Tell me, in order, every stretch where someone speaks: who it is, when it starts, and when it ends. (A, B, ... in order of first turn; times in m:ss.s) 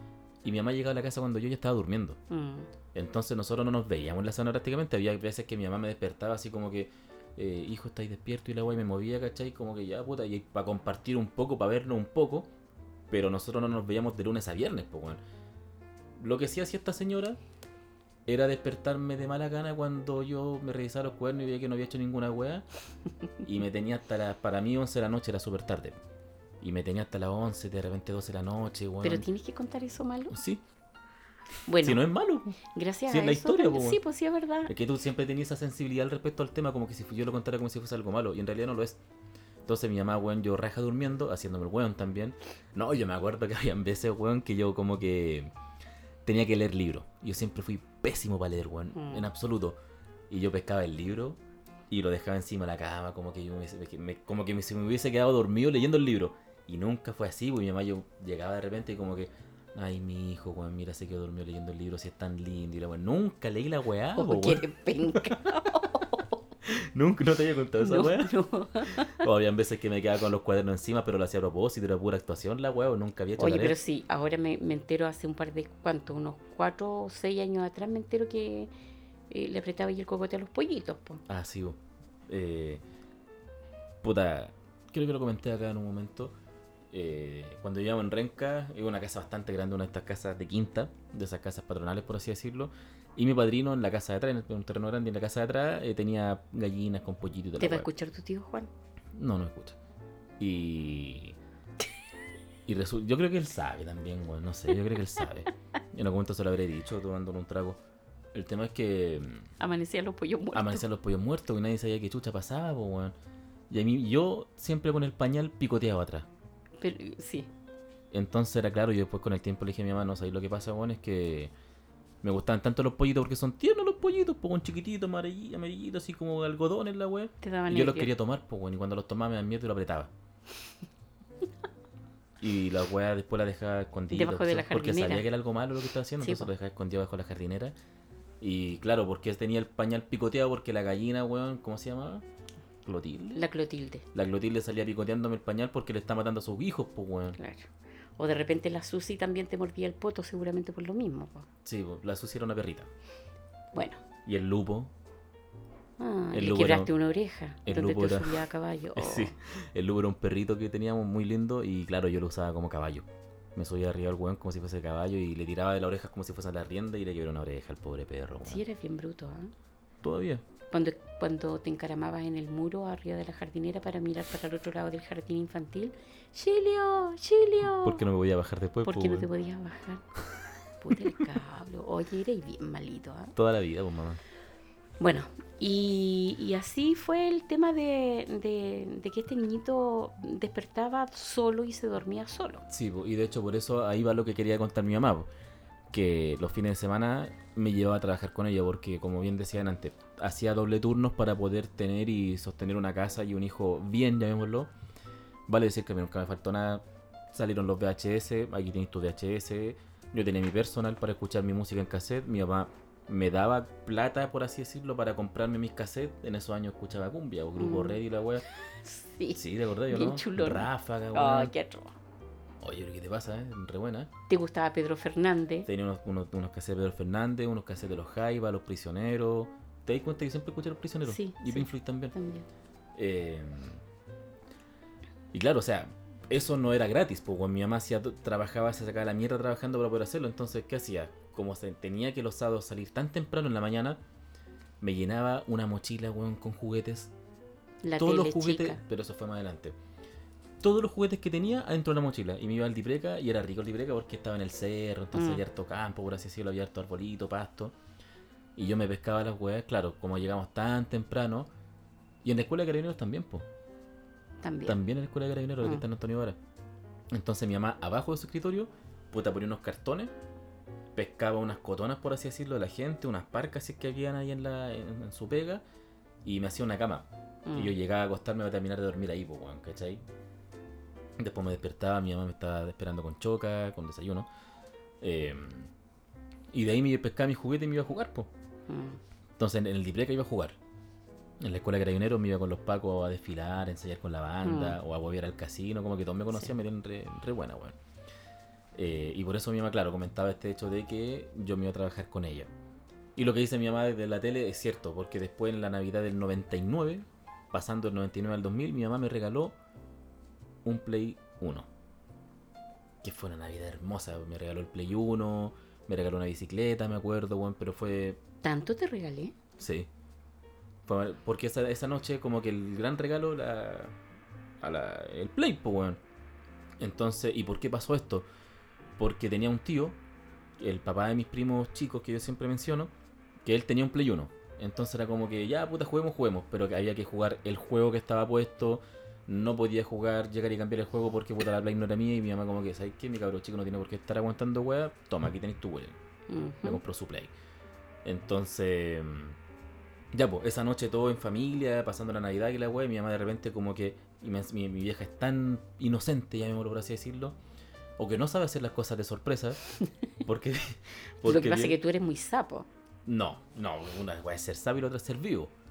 0:00.4-0:02.2 A
0:02.3-0:02.7 B
0:02.9-0:12.5 A
0:13.1-0:15.2 A
0:16.2-0:17.4 A
0:18.3-0:22.7 A
0:23.4-0:26.0 A
0:26.6-0:29.3 A
0:29.0-0:30.4 B
0:30.3-0:30.6 A
0:31.7-0:32.0 B
0:31.8-0:32.6 A
0:32.6-0:34.7 B
0:33.1-0:34.0 A
0:34.7-0:39.0 A
0:39.7-0:45.5 A
0:46.2-0:49.8 A
0:49.0-0:49.3 B
0:50.3-1:05.4 A
1:04.2-1:06.3 B
1:06.6-1:08.4 A
1:07.8-1:09.2 B
1:09.0-1:13.8 A
1:13.4-1:18.7 B
1:19.3-1:21.2 B
1:21.3-1:22.8 A
1:24.0-1:26.4 A
1:26.9-1:37.9 A
1:37.6-1:38.7 B
1:39.1-1:39.8 A
1:40.4-1:41.4 A
1:42.7-1:47.8 A
1:48.3-1:49.5 A
1:49.6-1:50.8 B
1:50.5-1:53.2 A
1:53.7-1:56.3 A
1:56.8-1:57.5 B
1:58.1-2:01.5 A
2:02.2-2:10.1 A
2:07.4-2:08.1 B
2:12.4-2:17.8 A
2:14.1-2:15.3 B
2:16.2-2:16.5 B
2:18.4-2:22.2 A
2:22.8-2:23.5 A
2:23.3-2:24.1 B
2:24.1-2:27.4 A
2:27.4-2:31.5 B
2:31.6-2:32.9 A
2:33.7-2:34.0 B
2:34.3-2:34.9 A
2:36.0-2:39.3 B
2:36.3-2:36.9 A
2:37.6-2:48.6 A
2:48.4-2:49.5 B
2:50.0-2:50.4 A
2:50.7-2:58.0 B
2:57.6-2:59.3 A
2:58.8-3:00.1 B
3:00.8-3:03.4 B
3:03.4-3:04.2 A
3:05.0-3:12.6 B
3:12.7-3:15.3 A
3:15.9-3:24.7 A
3:25.5-3:38.4 A
3:37.6-3:38.0 B
3:38.8-3:41.9 B
3:39.4-3:41.5 A
3:42.6-3:44.1 A
3:44.3-3:45.7 B
3:45.7-3:52.2 A
3:51.0-3:52.5 B
3:53.0-3:53.8 A
3:55.3-4:04.0 A
4:04.8-4:07.1 A
4:07.8-4:08.8 B
4:08.0-4:09.8 A
4:10.6-4:17.8 A
4:15.1-4:15.4 B
4:18.6-4:21.5 A
4:22.2-4:23.5 A
4:24.4-4:24.8 B
4:24.6-4:26.4 A
4:27.1-4:30.1 A
4:31.0-4:35.6 A
4:36.2-4:40.0 A
4:37.5-4:37.8 B
4:41.2-4:44.3 A
4:45.0-4:45.7 A
4:46.5-4:48.3 A
4:48.7-4:49.0 B
4:49.4-4:50.6 A
4:51.4-4:57.8 A
4:54.4-4:54.8 B
4:58.8-5:02.5 A
5:03.2-5:09.6 A
5:10.6-5:11.7 A
5:13.0-5:18.2 A
5:18.4-5:19.3 B
5:19.6-5:19.9 A
5:20.9-5:24.0 A
5:24.6-5:26.0 A
5:26.8-5:28.3 A
5:29.0-5:30.0 A
5:30.6-5:32.9 A
5:33.4-5:46.0 A
5:46.3-5:46.8 B
5:46.6-5:47.3 A
5:48.0-5:49.4 A
5:50.1-5:57.4 A
5:58.0-5:59.6 A
6:00.2-6:01.8 A
6:01.2-6:02.7 B
6:03.1-6:05.5 A